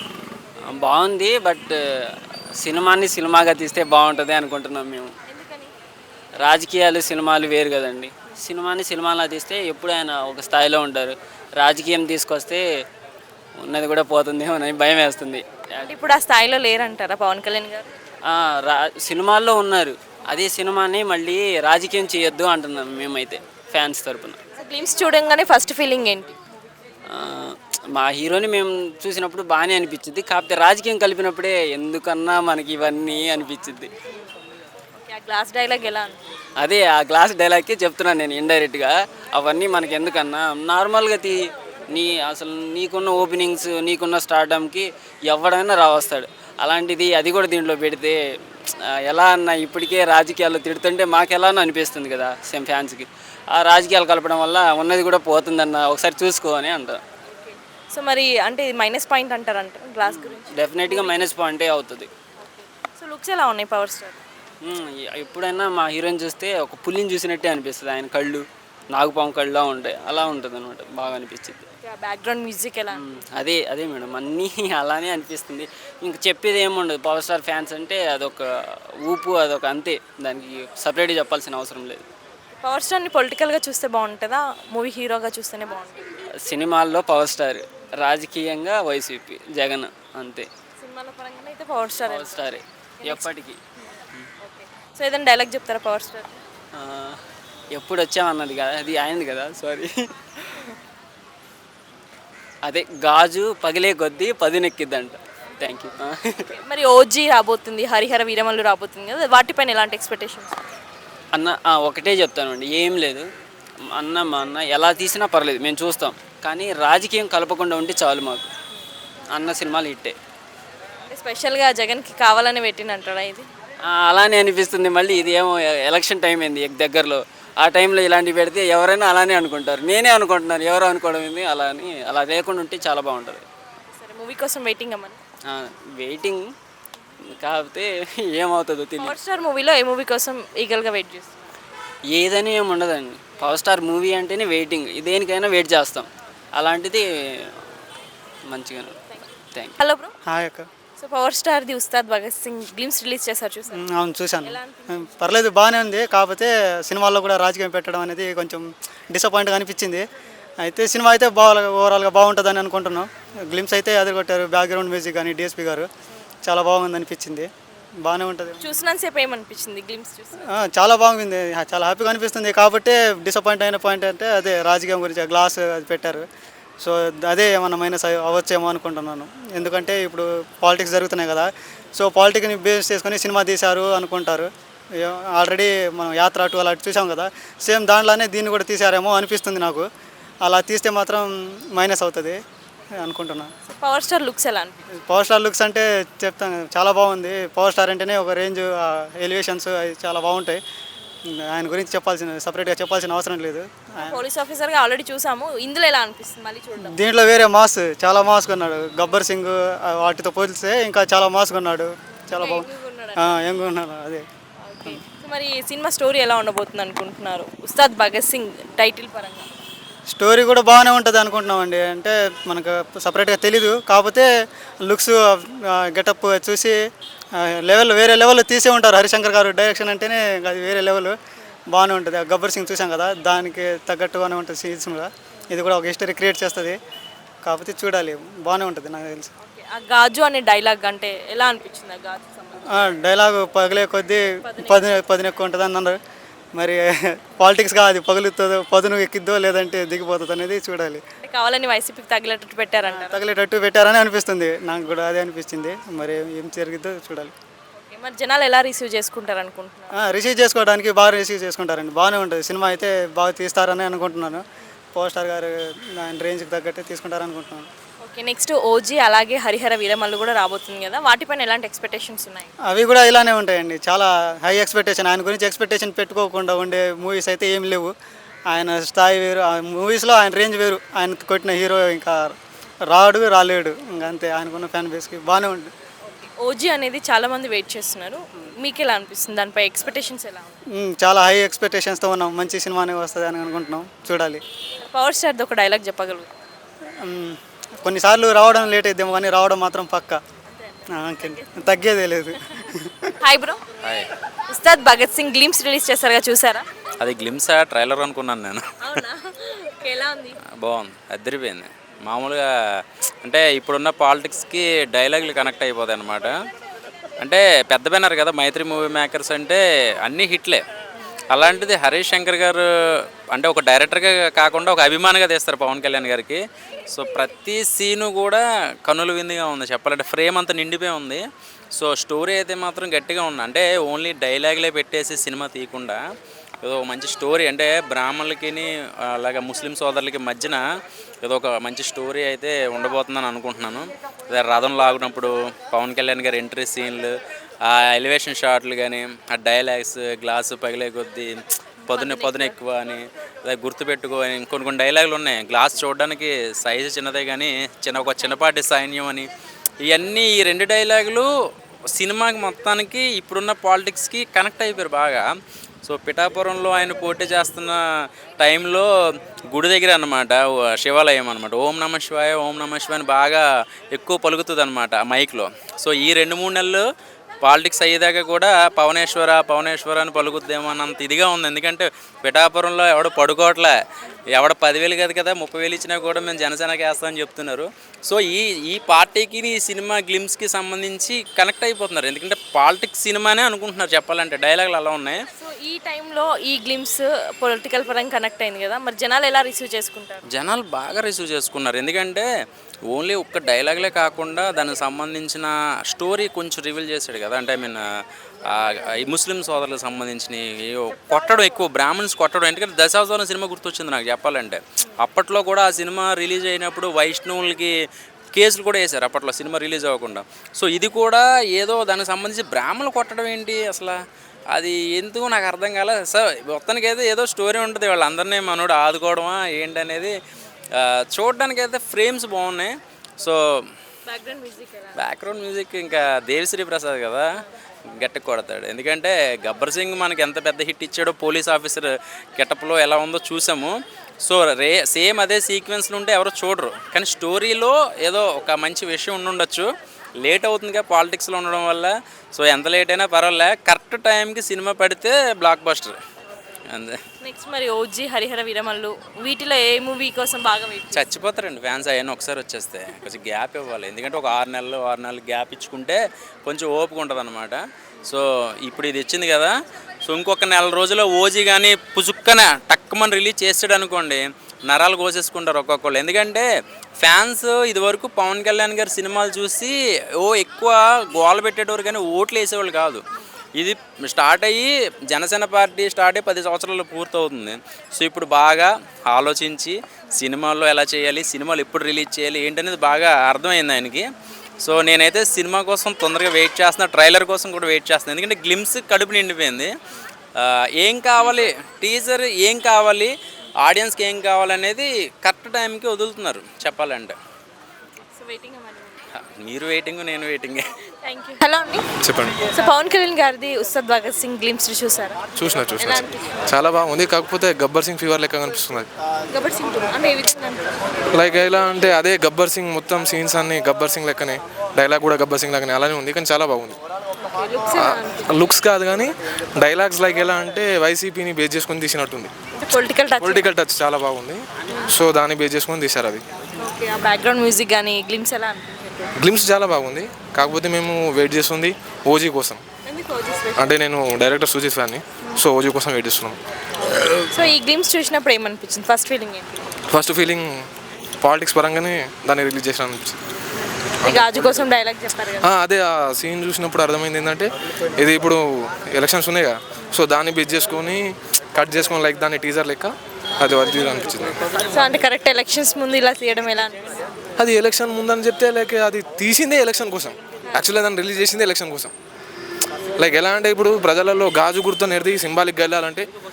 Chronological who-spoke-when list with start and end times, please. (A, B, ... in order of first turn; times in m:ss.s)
0:00.7-0:01.8 A
0:02.6-0:05.1 A
0:05.2-0:05.7 B
0:06.4-0:12.6 A
0:13.6-0:15.4 A
0:15.8-0:17.9 B
0:18.3-0:24.4 A
0:24.6-0:26.4 B
0:27.1-0:33.9 A
0:35.0-0:36.2 B
0:36.6-0:41.4 A
0:41.9-0:48.2 A
0:49.1-0:57.0 A
0:57.9-1:01.3 B
1:00.1-1:02.1 A
1:02.9-1:04.2 B
1:04.6-1:11.7 A
1:11.8-1:13.0 B
1:13.0-1:22.1 A
1:22.6-1:26.1 B
1:26.4-1:30.5 A
1:30.8-1:33.3 B
1:32.1-1:33.6 A
1:34.4-1:36.3 B
1:36.7-1:37.2 A
1:37.7-1:40.0 A
1:42.6-1:46.4 A
1:46.4-1:50.6 B
1:51.3-1:53.3 A
1:53.9-1:58.5 A
1:59.3-2:00.1 A
2:01.1-2:03.5 B
2:03.9-2:13.4 A
2:13.9-2:15.2 B
2:15.5-2:16.5 A
2:17.4-2:19.1 A
2:19.0-2:21.3 B
2:22.1-2:27.5 A
2:28.5-2:29.0 A
2:29.8-2:30.1 B
2:30.3-2:30.7 C
2:31.0-2:33.8 B
2:33.7-2:40.0 C
2:34.4-2:35.1 B
2:40.6-2:45.9 C
2:46.4-2:47.5 C
2:48.0-2:48.7 C
2:48.6-2:50.5 B
2:50.5-2:56.3 C
2:56.8-3:09.9 C
3:10.4-3:12.4 C
3:13.0-3:13.5 C
3:13.7-3:14.8 B
3:15.0-3:20.6 C
3:21.3-3:24.2 C
3:24.0-3:26.9 B
3:26.8-3:34.2 C
3:32.3-3:33.4 B
3:34.6-3:39.5 B
3:40.1-3:44.3 C
3:44.8-3:46.8 C
3:47.4-3:51.1 C
3:51.7-3:56.8 C
3:57.4-3:59.3 C
3:59.4-4:02.9 B
4:02.7-4:06.0 C
4:04.4-4:05.0 B
4:06.5-4:11.0 C
4:11.2-4:13.2 B
4:12.9-4:17.3 C
4:17.8-4:19.9 B
4:20.0-4:24.4 C
4:24.9-4:27.7 C
4:28.0-4:32.5 B
4:32.7-4:37.9 C
4:38.5-4:42.4 C
4:42.9-4:45.7 C
4:46.1-4:50.6 B
4:50.7-4:54.4 C
4:54.8-4:56.3 B
4:57.0-5:00.2 C
5:00.6-5:01.8 B
5:01.0-5:03.1 C
5:03.2-5:03.6 B
5:03.8-5:04.1 D
5:04.5-5:06.6 B
5:07.0-5:09.0 D
5:08.8-5:10.4 B
5:10.6-5:12.4 D
5:13.2-5:16.3 D
5:17.2-5:20.6 D
5:21.3-5:22.6 D
5:23.3-5:31.2 D
5:31.8-5:36.0 D
5:36.6-5:40.6 D
5:41.2-5:47.1 D
5:47.7-5:59.3 D
5:51.9-5:52.5 B
5:59.9-6:01.3 D
6:01.9-6:05.2 D
6:05.8-6:07.8 D
6:08.4-6:08.9 D
6:09.5-6:16.8 D
6:17.4-6:23.7 D
6:24.3-6:35.2 D
6:35.4-6:40.2 B
6:40.3-6:42.3 D
6:42.9-6:47.8 D
6:48.4-6:57.7 D
6:58.3-7:04.0 D
7:04.5-7:10.1 D
7:10.7-7:13.4 D
7:14.0-7:15.0 B
7:15.0-7:17.3 D
7:18.0-7:29.7 D
7:30.2-7:36.0 D
7:36.7-7:37.0 D
7:37.2-7:41.1 B
7:40.9-7:49.5 D
7:50.0-7:56.5 D
7:57.0-8:03.0 D
8:03.6-8:14.1 D
8:14.6-8:19.7 D
8:20.4-8:23.1 D
8:23.6-8:27.2 D
8:28.0-8:29.0 B
8:29.2-8:30.6 D
8:31.0-8:31.8 B
8:32.0-8:32.4 E
8:32.4-8:35.2 B
8:35.4-8:38.9 E
8:35.8-8:36.4 B
8:39.3-8:40.6 B
8:41.1-8:46.8 E
8:47.2-8:48.4 B
8:47.7-8:52.3 E
8:52.5-8:53.5 B
8:53.2-8:56.2 E
8:56.6-8:59.1 B
8:59.2-9:02.6 E
9:02.9-9:03.6 B
9:03.5-9:06.4 E
9:07.3-9:09.7 B
9:09.9-9:10.6 E
9:11.2-9:13.2 E
9:14.0-9:14.4 E
9:14.0-9:15.5 B
9:15.4-9:24.4 E
9:24.6-9:26.9 B
9:27.4-9:31.9 E
9:33.0-9:36.1 E